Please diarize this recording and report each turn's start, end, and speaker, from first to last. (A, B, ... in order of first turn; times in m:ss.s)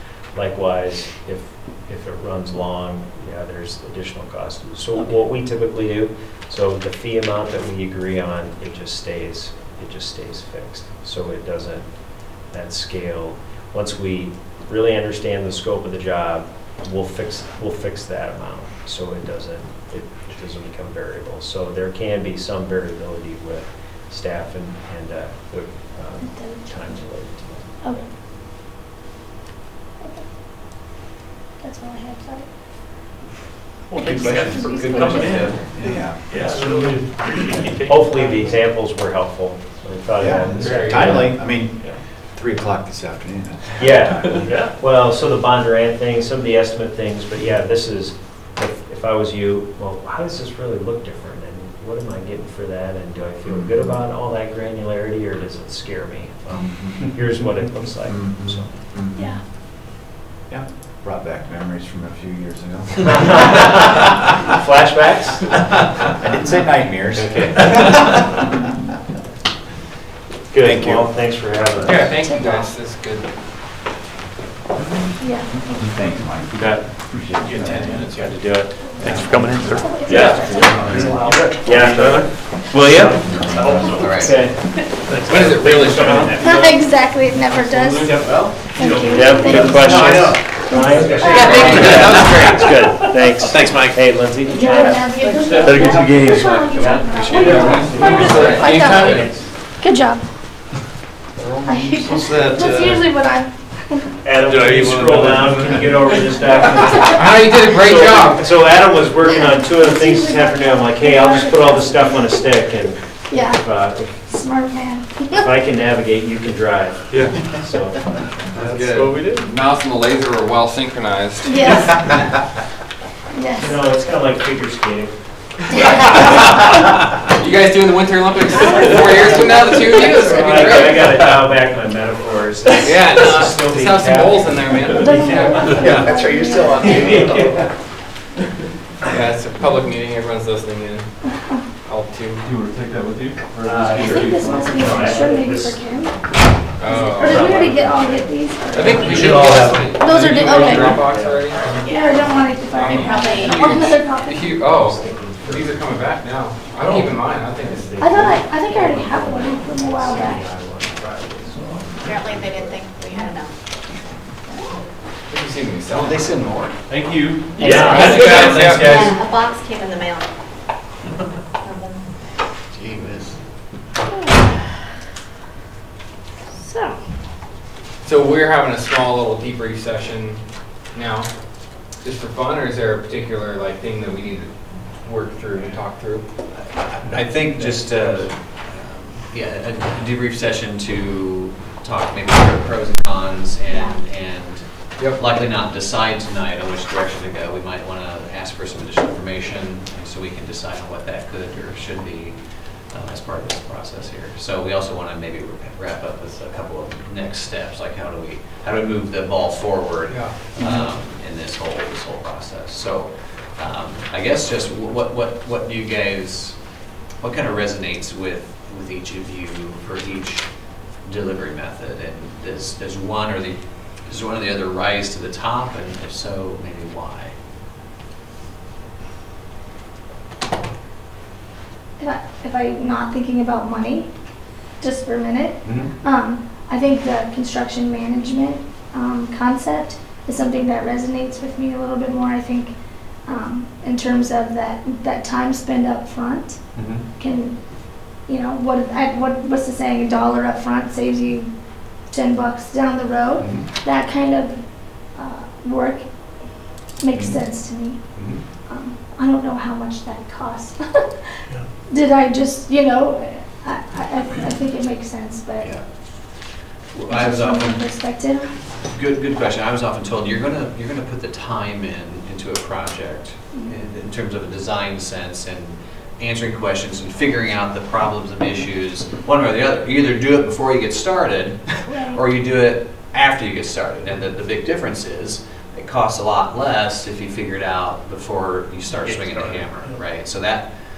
0:00.3-0:11.9 A
0:12.4-0:27.8 A
0:26.2-0:26.7 B
0:31.6-0:32.5 B
0:34.0-0:35.5 B
0:34.0-0:35.6 C
0:34.0-0:35.5 D
0:35.8-0:36.2 E
0:36.3-0:38.4 D
0:37.8-0:41.3 A
0:40.2-0:41.8 E
0:40.5-0:41.1 F
0:42.4-0:44.4 E
0:43.8-0:58.7 A
0:58.1-0:59.2 E
1:00.5-1:03.5 E
1:03.1-1:05.6 A
1:06.2-1:08.0 E
1:07.1-1:07.9 A
1:10.5-1:12.2 A
1:10.6-1:11.1 E
1:11.8-1:13.3 F
1:12.2-1:12.7 B
1:15.2-1:15.8 B
1:15.7-1:18.1 E
1:16.6-1:16.8 A
1:17.4-1:18.4 C
1:18.2-1:19.2 A
1:18.8-1:21.2 B
1:19.0-1:19.5 C
1:19.0-1:22.3 D
1:20.1-1:24.6 A
1:20.2-1:21.3 E
1:20.6-1:21.1 C
1:22.8-1:24.0 D
1:22.9-1:24.0 E
1:23.8-1:24.4 C
1:25.1-1:32.7 D
1:25.2-1:26.4 F
1:25.3-1:26.4 A
1:26.4-1:32.0 B
1:29.1-1:39.5 A
1:29.9-1:30.3 C
1:31.0-1:32.7 C
1:31.6-1:32.0 F
1:33.4-1:34.0 C
1:34.4-1:40.2 B
1:35.6-1:36.4 D
1:35.9-1:38.6 C
1:37.3-1:39.4 F
1:37.5-1:39.0 D
1:41.5-1:43.1 D
1:41.6-1:44.1 B
1:44.2-1:54.4 A
1:44.4-1:46.6 D
1:46.5-1:47.2 B
1:47.1-1:48.5 F
1:49.2-1:52.4 B
1:53.3-1:53.6 B
1:54.2-1:55.5 B
1:55.4-1:58.0 A
1:57.1-1:57.4 D
1:58.5-2:02.1 F
1:58.5-1:59.6 D
2:01.4-2:02.0 B
2:03.3-2:03.8 B
2:03.6-2:05.1 A
2:05.7-2:06.3 B
2:06.0-2:06.4 F
2:07.3-2:11.3 F
2:08.6-2:16.0 A
2:08.8-2:09.3 D
2:10.4-2:10.8 C
2:12.8-2:16.1 F
2:14.9-2:17.1 B
2:15.8-2:17.7 E
2:16.7-2:17.6 A
2:16.8-2:17.1 F
2:17.2-2:17.5 D
2:19.1-2:21.0 F
2:21.2-2:21.6 B
2:21.8-2:22.4 F
2:22.4-2:25.3 D
2:23.6-2:25.8 A
2:23.9-2:26.2 B
2:26.8-2:27.6 F
2:26.8-2:32.4 A
2:27.2-2:31.1 B
2:28.7-2:31.7 F
2:29.1-2:29.8 D
2:31.8-2:32.2 G
2:31.9-2:34.5 B
2:32.7-2:38.0 F
2:32.8-2:33.6 G
2:34.5-2:36.0 A
2:36.9-2:43.3 A
2:38.0-2:40.4 B
2:42.0-2:43.5 G
2:45.3-2:46.3 F
2:46.0-2:46.7 C
2:46.9-2:49.0 D
2:47.6-2:49.0 A
2:47.6-2:49.2 F
2:48.0-2:50.3 G
2:48.3-2:48.8 C
2:51.6-2:52.0 G
2:52.7-2:53.3 C
2:54.1-2:54.5 B
2:56.6-2:57.0 B
2:58.0-3:00.4 F
3:00.9-3:01.3 F
3:02.0-3:04.5 F
3:05.0-3:06.2 F
3:06.5-3:22.4 C
3:07.3-3:08.3 F
3:13.7-3:14.0 B
3:15.0-3:15.2 F
3:22.9-3:36.6 C
3:30.1-3:30.8 F
3:37.2-3:40.5 C
3:41.0-3:47.3 C
3:52.0-3:54.1 B
3:54.8-4:02.7 B
4:03.2-4:06.6 B
4:06.8-4:07.0 E
4:07.2-4:07.5 B
4:08.2-4:11.5 B
4:12.1-4:14.6 B
4:13.4-4:13.6 E
4:15.1-4:16.0 B
4:17.0-4:18.0 B
4:17.1-4:17.4 E
4:18.7-4:21.1 B
4:21.9-4:25.8 B
4:26.9-4:28.0 C
4:27.1-4:28.5 B
4:28.8-4:50.7 C
4:41.9-4:42.2 B